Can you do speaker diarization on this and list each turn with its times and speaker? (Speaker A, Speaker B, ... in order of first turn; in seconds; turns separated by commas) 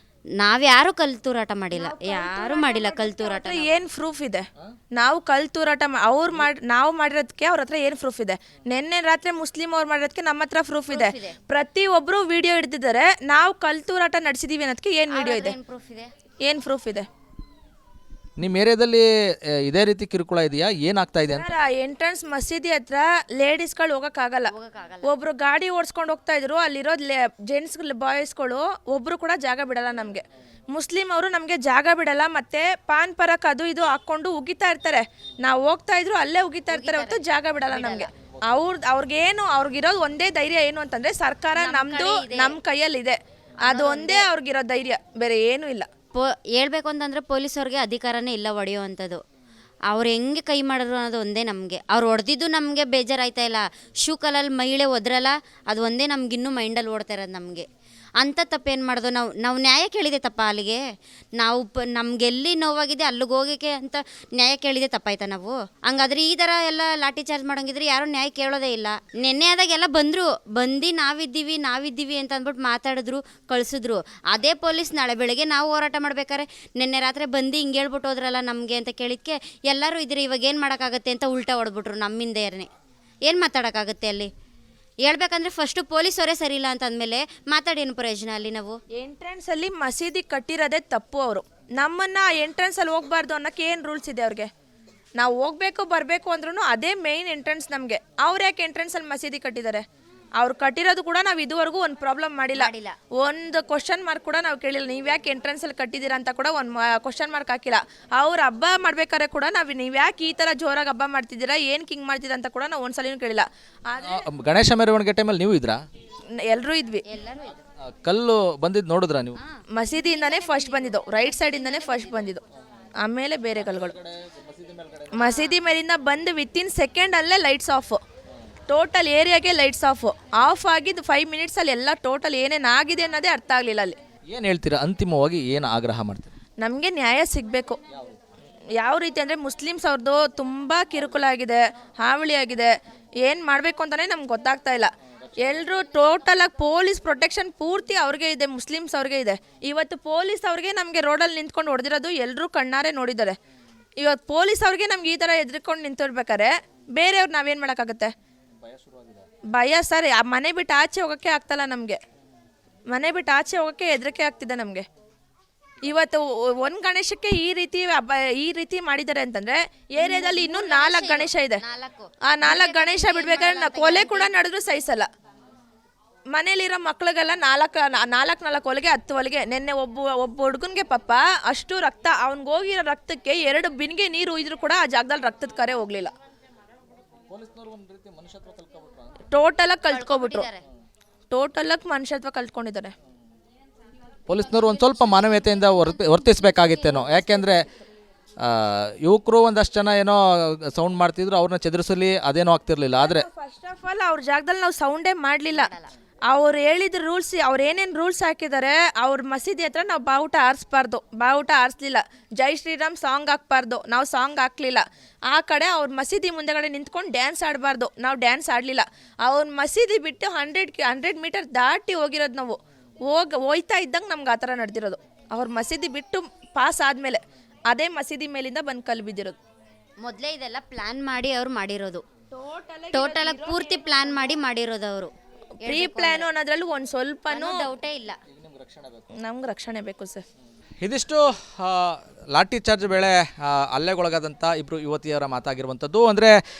Speaker A: 0.4-3.8, Speaker B: 1.7-15.6, Speaker A: 10.9-11.3, Speaker A: 15.1-16.1, Speaker B: 16.4-17.1, Speaker C: 18.4-21.5, Speaker B: 21.3-24.5, Speaker A: 24.5-25.1, Speaker B: 25.0-45.9, Speaker A: 36.7-38.1, Speaker A: 41.5-42.6, Speaker A: 43.6-44.3, Speaker A: 46.1-49.2, Speaker A: 49.9-57.7, Speaker A: 58.2-60.8, Speaker A: 61.4-82.7, Speaker A: 83.3-84.3, Speaker A: 85.0-88.8, Speaker B: 89.0-94.5, Speaker B: 95.2-99.8, Speaker B: 100.4-114.2, Speaker A: 102.5-103.0, Speaker C: 114.0-115.8, Speaker B: 116.4-117.0, Speaker A: 117.1-117.6, Speaker C: 117.8-119.4, Speaker A: 119.4-122.4, Speaker B: 119.7-122.4, Speaker B: 123.0-123.9, Speaker C: 123.5-125.2, Speaker A: 125.1-125.6, Speaker B: 125.1-128.0, Speaker B: 128.7-134.0, Speaker C: 134.3-136.3, Speaker B: 136.6-137.8, Speaker B: 138.8-153.4, Speaker B: 154.0-158.1, Speaker C: 158.6-159.2, Speaker B: 159.5-162.0, Speaker B: 162.9-164.8, Speaker B: 165.8-171.6, Speaker A: 170.0-174.3, Speaker B: 172.3-175.1, Speaker B: 176.3-186.1, Speaker C: 187.3-189.1, Speaker B: 189.3-190.5, Speaker A: 189.9-190.6, Speaker B: 191.3-192.9, Speaker C: 194.3-197.7, Speaker A: 194.8-197.2, Speaker B: 197.0-197.4, Speaker C: 198.4-203.2, Speaker B: 202.9-205.7, Speaker A: 205.5-205.9, Speaker B: 206.3-229.4, Speaker A: 230.0-232.0, Speaker B: 232.3-234.4, Speaker A: 232.9-235.1, Speaker A: 235.6-236.3, Speaker B: 235.6-237.7, Speaker A: 237.3-238.2, Speaker C: 238.3-239.1, Speaker B: 239.2-240.2, Speaker C: 240.8-246.3